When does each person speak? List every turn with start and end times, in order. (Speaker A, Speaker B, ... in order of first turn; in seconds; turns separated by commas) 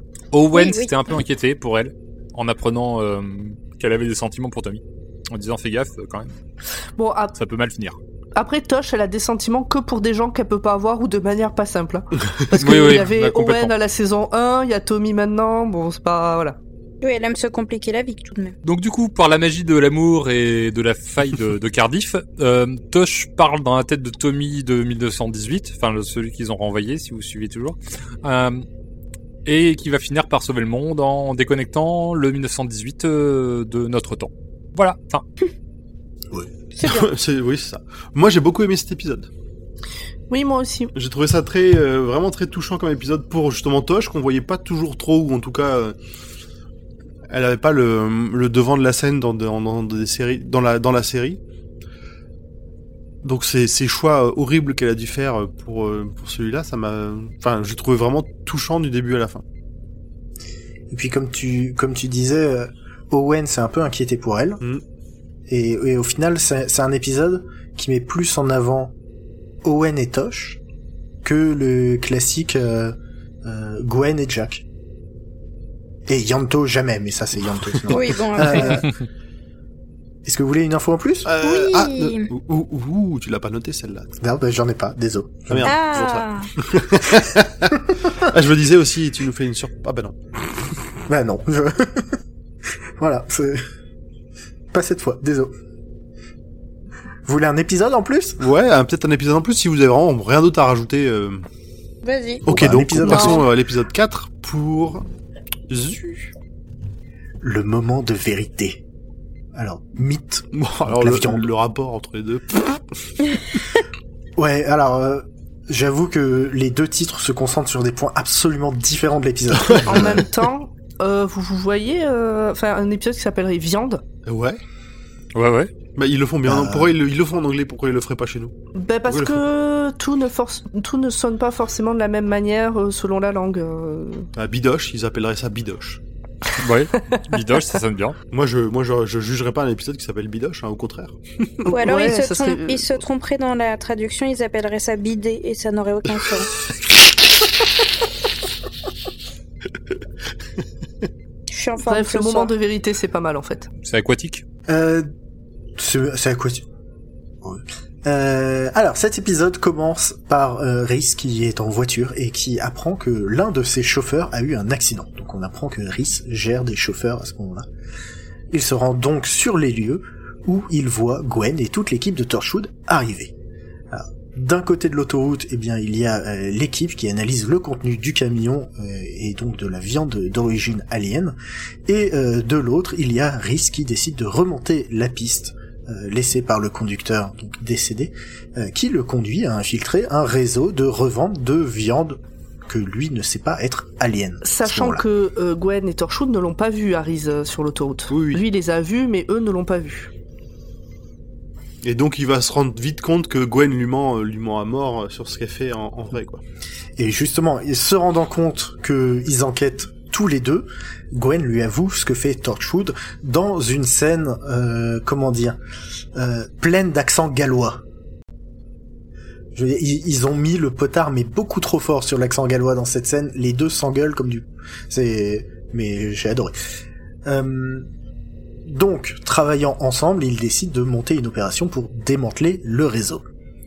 Speaker A: 0.3-6.3, Speaker B: 0.5-0.9, Speaker C: 7.0-7.3, Speaker A: 7.4-8.0, Speaker C: 8.3-16.6, Speaker A: 12.6-13.7, Speaker B: 17.0-18.6, Speaker A: 18.6-28.6, Speaker A: 29.4-35.2, Speaker B: 36.8-37.1, Speaker D: 36.8-39.3, Speaker C: 40.3-40.9, Speaker D: 41.0-46.0, Speaker D: 47.3-51.4, Speaker D: 53.2-59.4, Speaker E: 60.9-64.6, Speaker E: 65.5-68.9, Speaker E: 69.6-70.6, Speaker E: 71.2-74.7, Speaker E: 76.1-78.9, Speaker B: 77.9-78.8, Speaker E: 80.2-81.3, Speaker D: 81.3-84.1, Speaker B: 81.4-82.3, Speaker E: 84.2-85.8, Speaker D: 85.5-90.2, Speaker B: 85.6-86.5, Speaker E: 91.1-92.2, Speaker E: 93.0-93.6, Speaker E: 94.7-95.5, Speaker E: 97.2-98.4, Speaker D: 98.4-101.4, Speaker B: 102.0-102.5, Speaker E: 102.5-103.5, Speaker D: 102.5-105.0, Speaker C: 103.1-103.4, Speaker D: 105.7-106.3, Speaker E: 107.4-108.8, Speaker E: 109.5-111.5, Speaker D: 110.5-112.8, Speaker E: 114.4-120.3, Speaker D: 119.6-120.2, Speaker C: 119.9-124.0, Speaker D: 124.3-124.6, Speaker A: 125.3-125.7, Speaker D: 126.0-128.5, Speaker E: 126.5-127.0, Speaker C: 128.8-134.3, Speaker D: 129.1-129.4, Speaker D: 134.3-136.0, Speaker A: 136.6-138.2, Speaker D: 138.3-141.2, Speaker C: 141.6-142.9, Speaker B: 141.7-146.5, Speaker B: 151.5-152.5, Speaker C: 151.8-153.7, Speaker A: 153.8-154.4, Speaker E: 154.7-155.1, Speaker E: 155.8-156.7, Speaker E: 157.4-167.7, Speaker E: 168.5-173.3, Speaker E: 173.9-195.0, Speaker C: 194.4-200.1, Speaker D: 198.1-198.4, Speaker D: 201.8-206.4, Speaker E: 207.0-215.6, Speaker E: 216.2-217.8, Speaker E: 219.6-226.6, Speaker E: 227.2-227.9, Speaker E: 228.7-233.2